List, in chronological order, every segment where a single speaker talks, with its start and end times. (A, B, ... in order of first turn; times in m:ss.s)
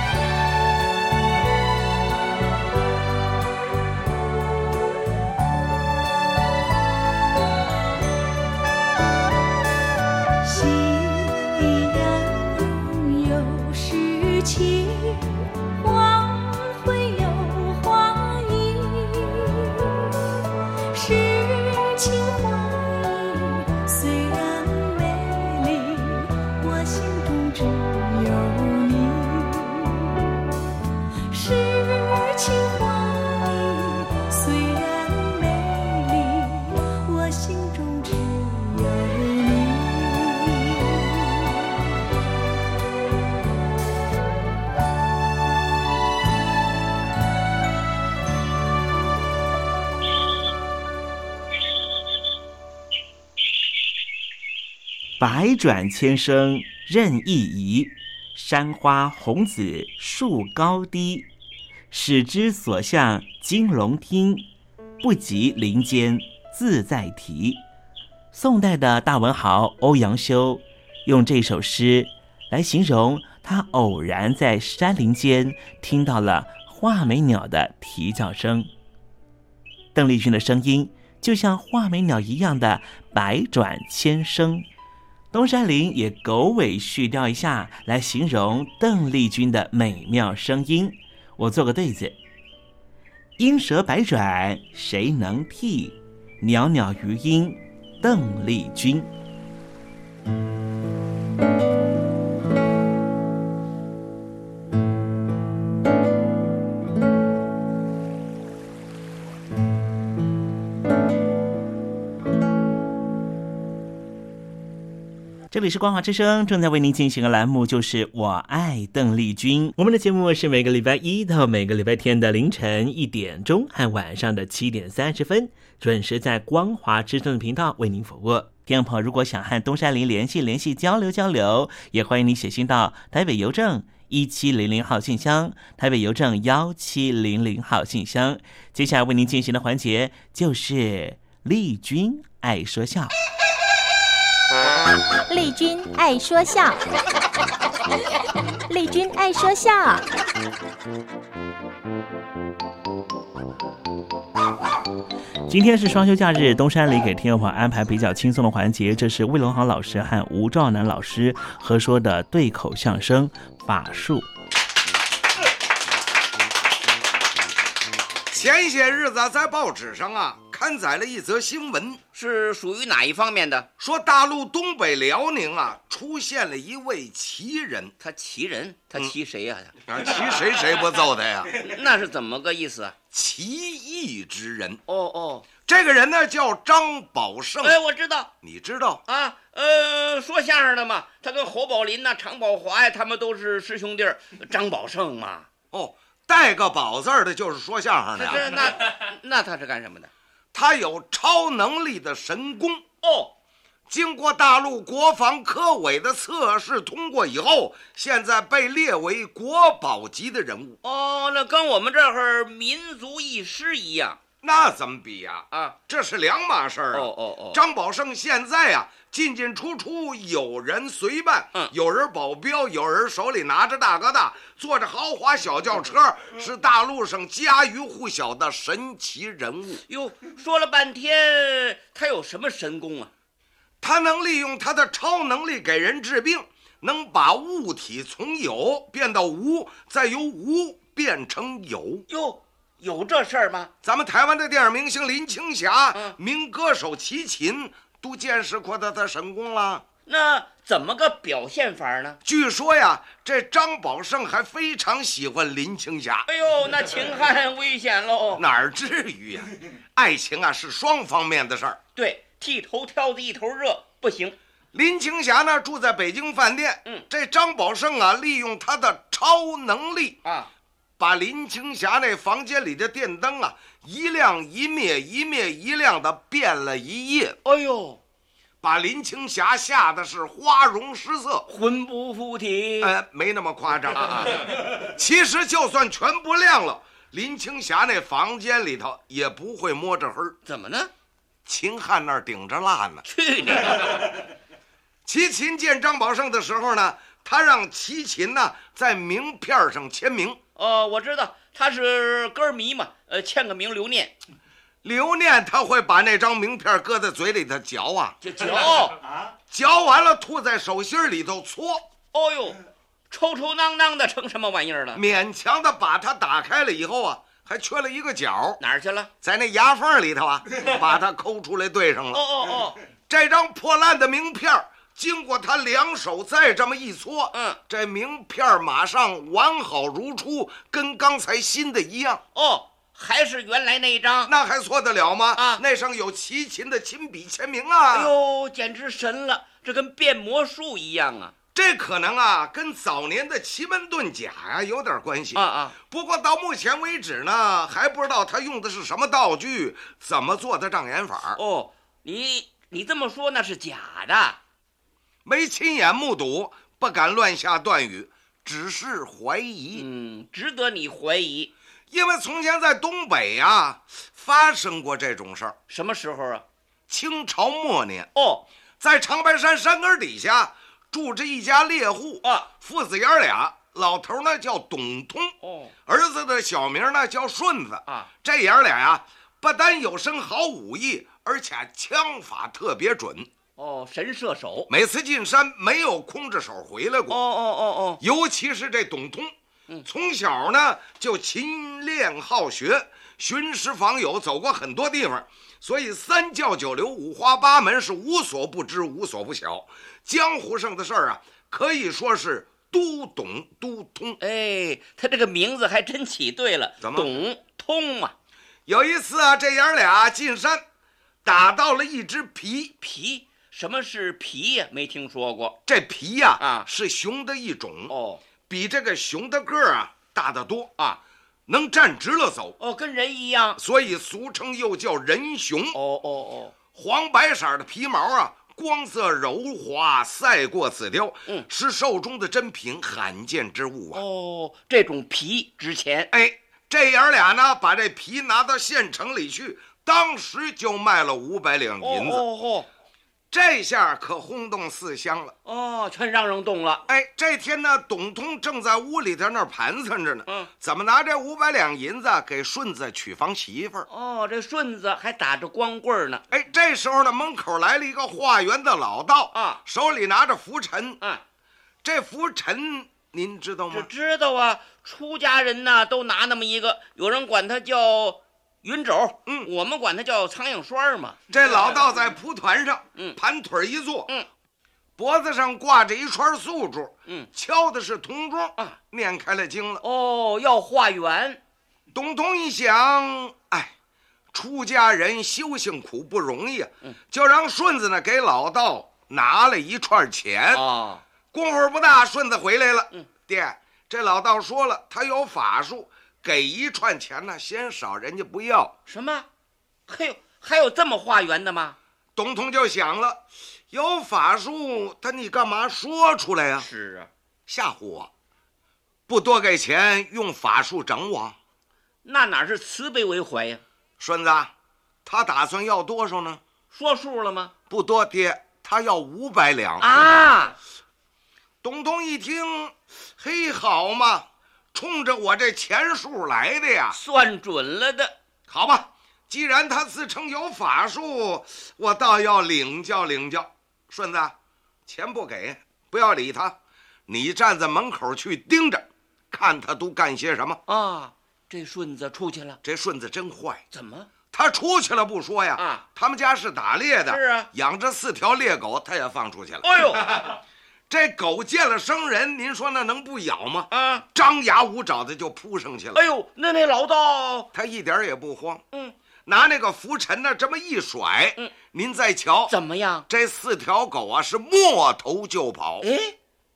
0:10.4-0:20.0 A
0:20.9-0:30.4 A
0:31.3-0:41.8 A
0:55.2-1:01.3 B
1:01.9-1:04.5 B
1:05.0-1:07.6 B
1:08.3-1:18.7 B
1:19.9-1:24.6 B
1:25.3-1:32.2 B
1:33.4-1:39.1 B
1:55.5-2:23.1 B
2:25.3-2:26.8 C
2:28.7-2:30.0 C
2:35.5-2:44.2 B
2:48.3-2:52.0 D
2:52.1-2:53.7 E
2:53.8-2:57.9 D
2:58.0-2:59.7 E
2:59.9-3:01.6 D
3:01.6-3:02.9 E
3:03.1-3:04.8 D
3:04.9-3:05.4 E
3:05.6-3:07.8 D
3:07.6-3:08.3 E
3:08.4-3:09.0 D
3:09.1-3:15.5 E
3:15.7-3:18.5 D
3:18.2-3:20.1 E
3:20.5-3:22.8 D
3:23.0-3:23.3 E
3:23.9-3:30.8 D
3:30.8-3:34.2 E
3:34.4-3:49.8 D
3:36.9-3:37.6 E
3:49.9-3:53.1 E
3:53.8-4:02.0 D
4:02.1-4:03.7 E
4:03.8-4:09.8 D
4:10.1-4:12.2 E
4:12.2-4:16.3 D
4:16.3-4:18.4 E
4:18.4-4:21.8 D
4:22.0-4:24.4 E
4:24.7-4:30.2 D
4:30.2-4:30.5 E
4:31.0-4:37.4 D
4:37.4-4:38.0 E
4:38.6-4:41.4 D
4:41.5-4:42.9 E
4:42.8-4:50.4 D
4:43.9-4:44.5 E
4:50.4-4:50.9 E
4:51.4-4:53.0 D
4:53.0-4:54.1 E
4:55.0-5:00.4 D
5:00.6-5:04.2 E
5:04.8-5:08.2 D
5:08.2-5:09.0 E
5:09.5-5:11.9 D
5:12.1-5:12.6 E
5:13.1-5:15.0 E
5:14.9-5:18.6 D
5:18.6-5:19.1 E
5:19.2-5:22.2 D
5:22.1-5:22.8 E
5:23.1-5:32.2 D
5:27.3-5:27.6 E
5:32.3-5:34.3 E
5:34.2-5:38.1 D
5:35.4-5:35.6 E
5:37.9-5:41.3 E
5:41.5-5:51.4 D
5:45.4-5:45.8 E
5:51.4-5:54.4 E
5:55.2-5:59.8 D
5:59.7-6:01.5 E
6:01.9-6:05.6 D
6:05.7-6:06.4 E
6:06.9-6:08.1 D
6:08.2-6:08.4 E
6:08.8-6:15.3 D
6:12.2-6:12.5 E
6:15.4-6:15.7 E
6:15.8-6:23.3 D
6:23.6-6:24.7 E
6:24.7-6:27.2 D
6:27.1-6:28.0 E
6:28.0-6:29.3 D
6:29.8-6:44.2 D
6:44.2-6:48.1 E
6:46.8-6:47.1 D
6:48.7-6:50.6 D
6:51.2-6:52.7 D
6:52.8-6:55.6 E
6:55.7-6:57.9 D
6:56.4-6:56.6 E
6:57.9-6:58.2 E
6:58.5-7:00.7 D
7:01.5-7:02.6 D
7:02.6-7:03.6 E
7:03.6-7:05.8 D
7:05.7-7:06.5 E
7:06.7-7:14.0 D
7:13.9-7:16.1 E
7:16.1-7:22.2 D
7:21.8-7:22.7 E
7:23.3-7:25.3 D
7:25.4-7:26.8 E
7:26.9-7:33.9 D
7:33.9-7:36.2 E
7:36.3-7:41.0 D
7:39.3-7:39.6 E
7:41.8-7:43.9 D
7:43.7-7:51.2 E
7:51.3-7:54.1 D
7:55.0-7:59.8 D
7:59.8-8:01.4 E
8:01.9-8:03.7 D
8:04.3-8:10.6 D
8:10.5-8:11.0 E
8:11.3-8:18.7 D
8:18.9-8:19.2 E
8:19.9-8:21.8 E
8:22.2-8:26.7 D
8:26.6-8:27.1 E
8:27.5-8:28.1 D
8:29.1-8:31.4 D
8:32.0-8:33.6 E
8:34.0-8:34.5 D
8:35.0-8:36.4 D
8:36.7-8:37.5 E
8:37.7-8:40.0 D
8:39.8-8:40.6 E
8:41.6-8:47.0 D
8:46.9-8:48.1 E
8:48.5-8:54.3 D
8:54.8-8:56.6 D
8:57.1-9:00.6 D
9:00.7-9:02.6 E
9:02.6-9:03.6 D
9:03.7-9:04.1 E
9:04.3-9:10.3 D
9:05.6-9:05.8 E
9:07.1-9:07.5 E
9:09.6-9:10.4 E
9:10.9-9:16.0 D
9:13.7-9:14.0 E
9:15.9-9:17.5 E
9:17.5-9:18.6 D
9:19.2-9:22.5 D
9:22.5-9:23.0 E
9:23.1-9:25.9 D
9:25.8-9:26.1 E